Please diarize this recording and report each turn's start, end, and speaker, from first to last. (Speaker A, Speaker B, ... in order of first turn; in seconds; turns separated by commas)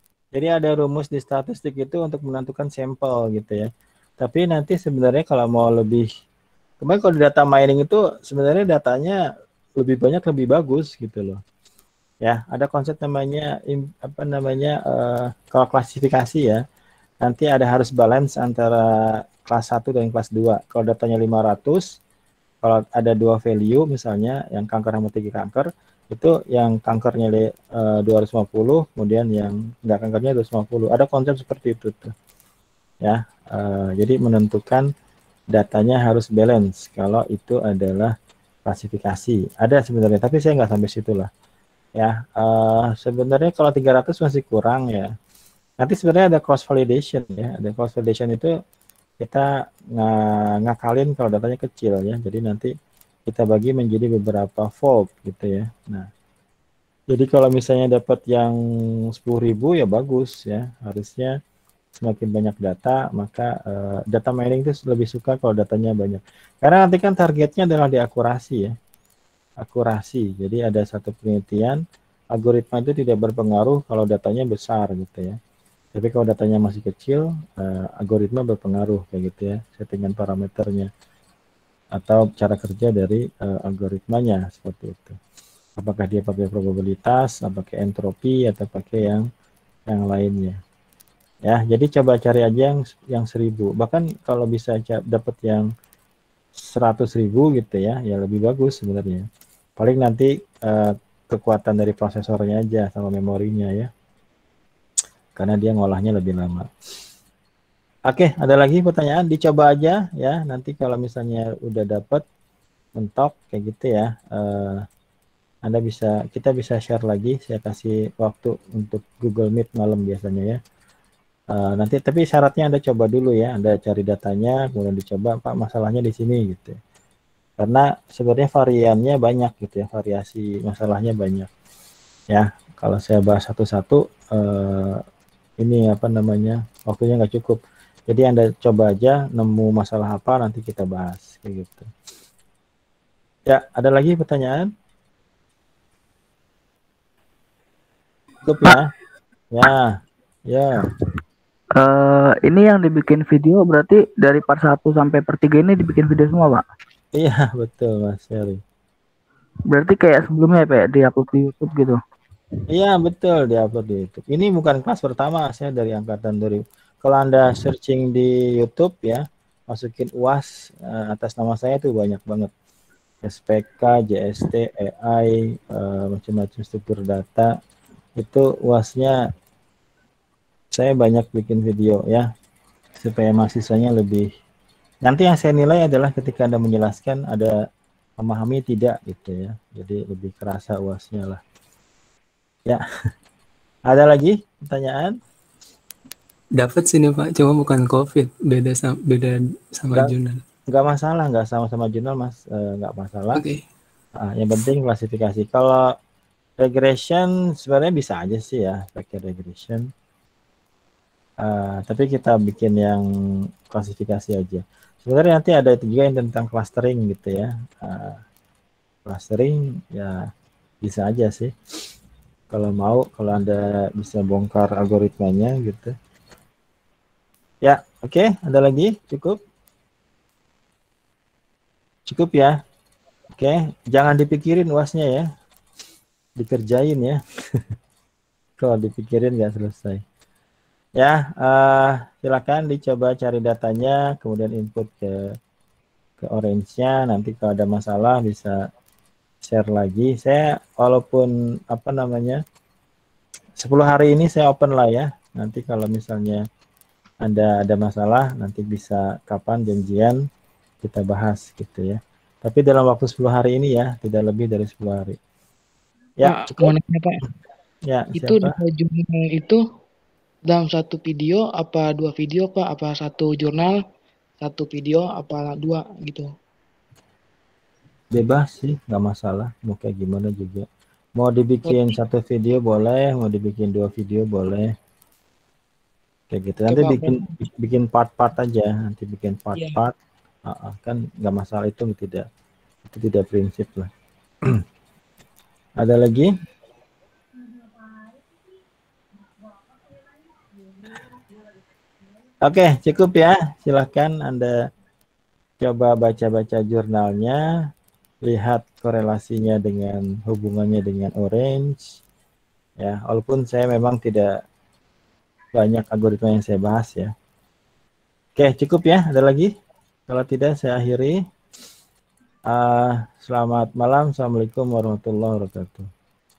Speaker A: 0.3-3.7, Speaker A: 4.2-6.1, Speaker A: 6.8-9.2, Speaker A: 9.8-11.4, Speaker A: 12.2-16.6, Speaker A: 17.2-21.9, Speaker A: 22.6-32.1, Speaker A: 33.0-34.9, Speaker A: 35.5-38.1, Speaker A: 38.7-41.3, Speaker A: 42.0-45.1, Speaker A: 45.8-48.5, Speaker A: 49.2-52.7, Speaker A: 53.3-56.1, Speaker A: 57.1-58.6, Speaker A: 59.2-61.3, Speaker A: 62.0-68.7, Speaker A: 69.6-71.8, Speaker A: 72.3-75.4, Speaker A: 76.0-80.9, Speaker A: 82.0-85.2, Speaker A: 85.8-89.3, Speaker A: 89.9-90.6, Speaker A: 91.5-95.7, Speaker A: 96.6-99.3, Speaker A: 99.8-103.9, Speaker A: 105.4-106.7, Speaker A: 108.1-112.2, Speaker A: 113.0-114.8, Speaker A: 115.7-120.6, Speaker A: 121.5-126.8, Speaker A: 127.6-131.5, Speaker A: 132.3-135.0, Speaker A: 135.6-141.9, Speaker A: 143.5-144.7, Speaker A: 148.4-148.9, Speaker A: 149.5-149.9, Speaker A: 150.5-150.9, Speaker B: 151.8-156.6, Speaker A: 157.2-158.6, Speaker B: 159.7-162.0, Speaker A: 162.7-172.5, Speaker A: 173.2-177.5, Speaker A: 178.2-179.2, Speaker A: 180.7-182.3, Speaker A: 183.0-184.3, Speaker A: 185.1-187.5, Speaker A: 188.2-191.4, Speaker A: 193.9-195.1, Speaker C: 196.6-200.4, Speaker A: 200.7-203.4, Speaker C: 203.3-203.6, Speaker A: 204.2-205.8, Speaker A: 206.6-209.9, Speaker A: 211.4-213.1, Speaker A: 213.7-218.2, Speaker A: 219.1-220.2, Speaker A: 220.8-221.5, Speaker A: 222.5-225.9, Speaker A: 227.6-229.4, Speaker A: 232.1-232.6, Speaker A: 233.4-235.3, Speaker A: 236.4-237.2, Speaker A: 238.6-240.0, Speaker A: 241.0-245.2, Speaker A: 246.2-248.6, Speaker A: 249.4-252.4, Speaker A: 253.6-256.4, Speaker A: 257.2-260.2, Speaker A: 260.8-265.2, Speaker A: 266.2-266.7, Speaker D: 266.2-267.2, Speaker A: 267.9-268.6, Speaker D: 268.2-269.6, Speaker D: 270.5-273.8, Speaker D: 274.4-276.3, Speaker A: 278.1-280.7, Speaker A: 281.2-284.7, Speaker A: 286.3-289.9, Speaker D: 286.7-287.3, Speaker A: 290.5-292.3, Speaker A: 292.9-293.9, Speaker A: 295.8-296.3, Speaker A: 302.4-304.5, Speaker A: 305.6-307.4, Speaker A: 308.3-311.8, Speaker A: 312.8-314.3, Speaker A: 315.6-317.1, Speaker A: 318.4-319.5, Speaker A: 320.1-321.2, Speaker A: 322.5-325.9